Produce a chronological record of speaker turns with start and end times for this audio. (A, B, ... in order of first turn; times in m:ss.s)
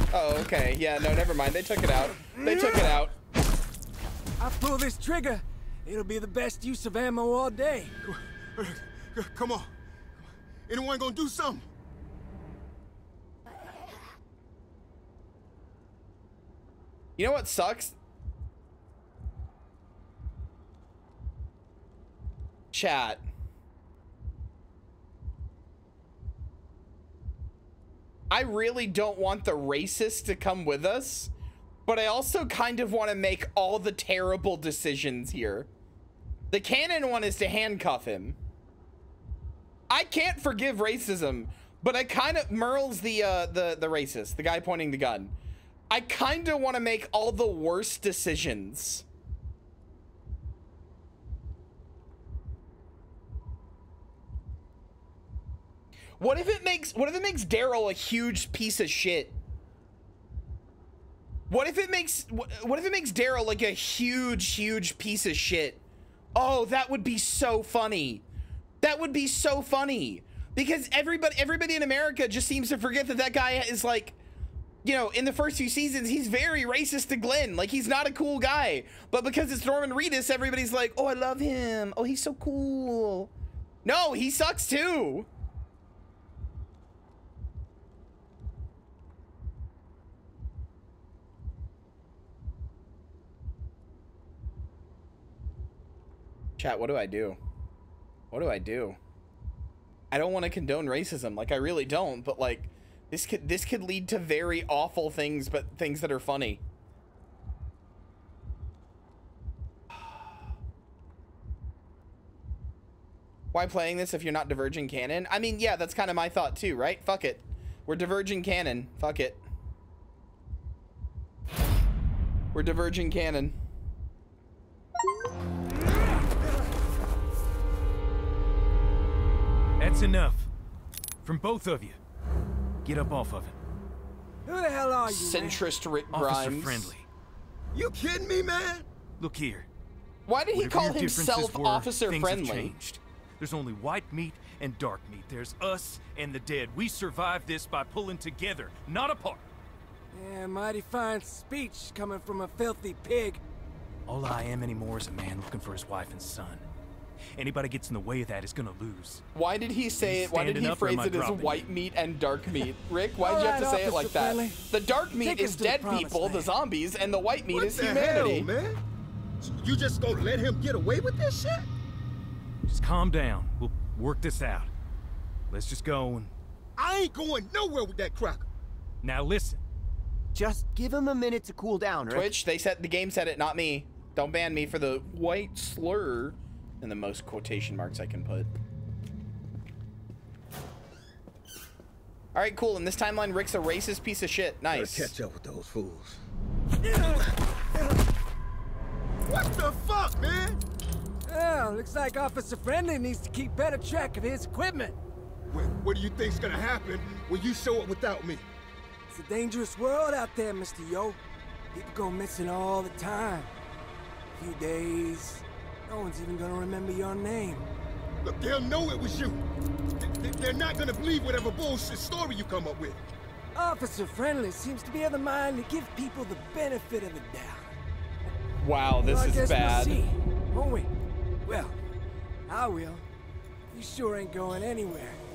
0:00.1-0:03.1 A
0:02.2-0:03.0 B
0:04.4-0:08.0 B
0:08.1-0:09.7 C
0:10.7-0:11.7 C
0:17.2-0:18.0 A
0:22.7-0:23.2 A
0:28.3-0:31.3 A
0:31.9-0:35.7 A
0:36.5-0:38.4 A
0:39.9-0:45.3 A
0:45.9-0:49.0 A
0:56.2-0:59.4 A
1:01.5-1:05.8 A
1:06.4-1:08.2 A
1:08.8-1:14.2 A
1:14.8-1:23.3 A
1:23.8-1:25.3 A
1:36.6-1:37.4 A
1:38.3-1:39.0 A
1:40.1-1:46.6 A
1:53.5-1:59.4 A
2:02.5-2:03.6 A
2:09.8-2:10.5 D
2:11.2-2:12.0 D
2:12.8-2:13.6 D
2:14.5-2:15.6 B
2:15.1-2:17.0 A
2:16.1-2:17.1 D
2:17.7-2:18.9 C
2:19.2-2:19.7 D
2:20.3-2:22.8 A
2:20.6-2:29.4 D
2:30.1-2:33.4 B
2:34.1-2:36.6 D
2:37.4-2:39.2 D
2:39.4-2:48.5 A
2:40.0-2:41.6 D
2:43.2-2:44.6 B
2:45.1-2:46.5 B
2:47.5-2:48.8 C
2:49.4-2:51.7 C
2:52.7-2:54.7 D
2:55.5-2:56.3 D
2:56.8-2:58.5 C
2:59.0-2:59.6 D
3:00.3-3:02.3 E
3:02.1-3:08.5 A
3:12.4-3:15.2 A
3:14.7-3:16.2 C
3:16.9-3:17.2 C
3:19.2-3:20.6 C
3:21.3-3:25.0 B
3:25.5-3:28.4 C
3:29.1-3:31.2 B
3:31.7-3:33.5 B
3:34.4-3:37.7 B
3:38.2-3:39.4 C
3:40.0-3:43.0 C
3:43.6-3:47.7 B
3:48.6-3:50.0 A
3:49.0-3:50.9 B
3:51.5-3:51.8 B
3:52.5-3:53.0 B
3:53.7-3:55.2 B